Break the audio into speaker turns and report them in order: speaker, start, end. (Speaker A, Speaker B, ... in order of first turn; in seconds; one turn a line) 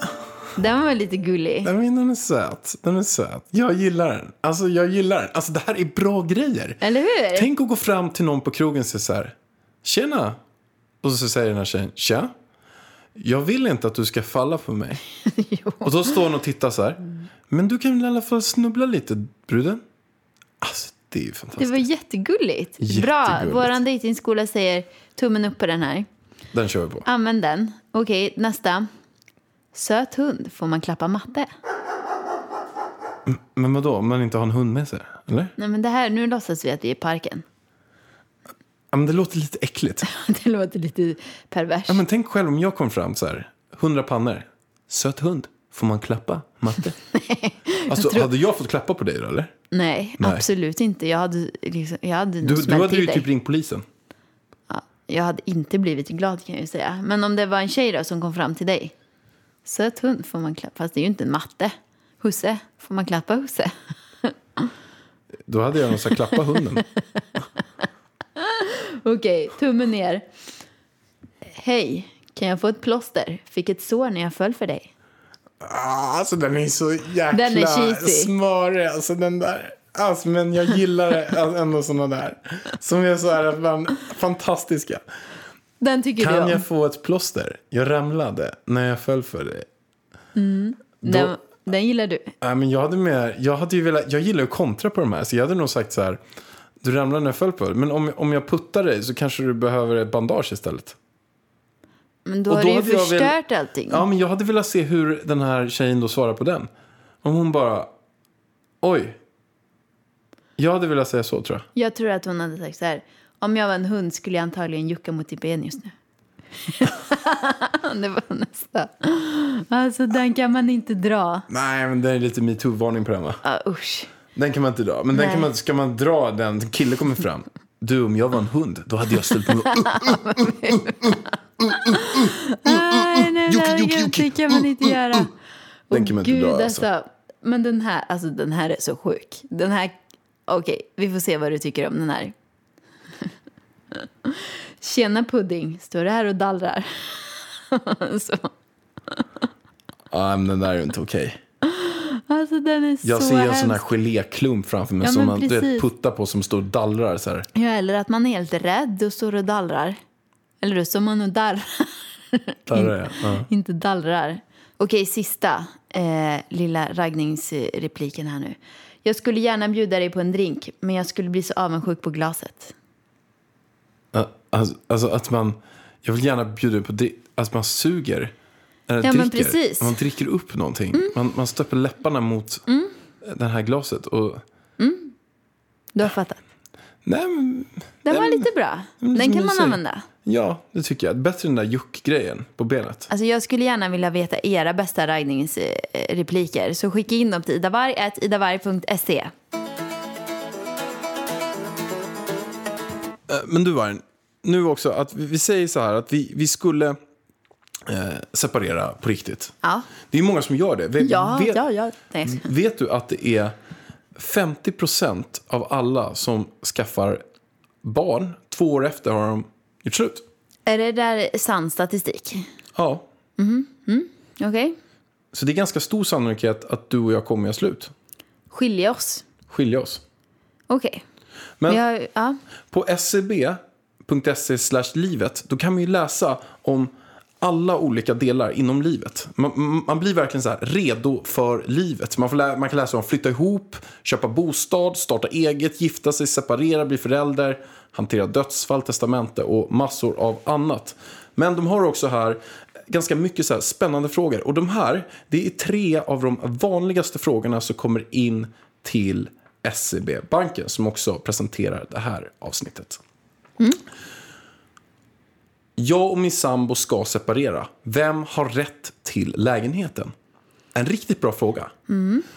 Speaker A: 0.6-1.7
Speaker B: 1.6-6.8
Speaker A: 6.8-7.5
Speaker B: 7.3-10.4
Speaker B: 11.0-12.3
Speaker B: 13.2-15.0
Speaker A: 15.2-15.9
Speaker B: 15.8-19.8
Speaker B: 20.6-21.9
Speaker A: 21.6-26.1
Speaker B: 22.8-23.8
Speaker B: 26.5-27.1
Speaker A: 27.1-28.9
Speaker A: 29.7-31.5
Speaker B: 33.3-35.5
Speaker A: 35.6-37.4
Speaker B: 38.9-40.1
Speaker A: 40.0-42.0
Speaker B: 41.9-47.0
Speaker A: 47.1-48.3
Speaker B: 47.9-49.5
Speaker A: 49.7-53.3
Speaker B: 50.2-50.5
Speaker B: 52.4-53.8
Speaker A: 54.7-58.9
Speaker A: 59.6-64.7
Speaker B: 65.5-66.8
Speaker A: 68.4-70.3
Speaker A: 71.5-74.9
Speaker B: 75.6-85.0
Speaker A: 77.3-78.3
Speaker A: 85.8-86.6
Speaker B: 86.2-89.7
Speaker A: 90.3-92.3
Speaker B: 91.0-91.3
Speaker B: 92.4-96.2
Speaker B: 96.8-101.0
Speaker A: 102.3-104.1
Speaker B: 102.5-103.4
Speaker B: 103.9-106.7
Speaker B: 107.2-107.9
Speaker B: 108.8-109.2
Speaker B: 110.6-111.7
Speaker A: 111.8-116.0
Speaker A: 116.7-121.5
Speaker B: 121.5-123.4
Speaker A: 123.4-124.1
Speaker B: 124.3-130.8
Speaker A: 125.1-125.5
Speaker A: 129.5-135.3
Speaker B: 131.9-134.9
Speaker A: 135.9-140.0
Speaker B: 135.9-136.9
Speaker A: 140.5-142.3
Speaker A: 144.0-148.5
Speaker B: 150.1-151.4
Speaker A: 151.6-153.8
Speaker B: 153.0-157.5
Speaker A: 155.0-155.9
Speaker A: 157.6-160.0
Speaker A: 160.6-172.8
Speaker B: 162.7-163.5
Speaker B: 174.1-178.3
Speaker B: 178.9-182.6
Speaker A: 179.0-180.0
Speaker A: 182.7-182.9
Speaker B: 183.2-184.4
Speaker A: 184.8-185.1
Speaker A: 185.9-186.4
Speaker B: 187.1-188.5
Speaker A: 188.1-190.1
Speaker B: 189.0-193.1
Speaker A: 193.1-199.3
Speaker B: 203.3-207.0
Speaker B: 207.9-209.6
Speaker B: 210.1-211.6
Speaker A: 211.0-212.4
Speaker B: 212.2-213.6
Speaker B: 214.2-217.2
Speaker B: 217.8-220.2
Speaker A: 220.7-222.5
Speaker B: 222.8-223.1
Speaker A: 223.4-224.8
Speaker B: 225.3-227.9
Speaker A: 228.5-229.3
Speaker B: 229.5-230.0
Speaker A: 230.7-231.0
Speaker A: 231.7-232.4
Speaker B: 232.7-263.0
Speaker B: 265.8-270.1
Speaker B: 270.8-271.7
Speaker A: 271.9-272.2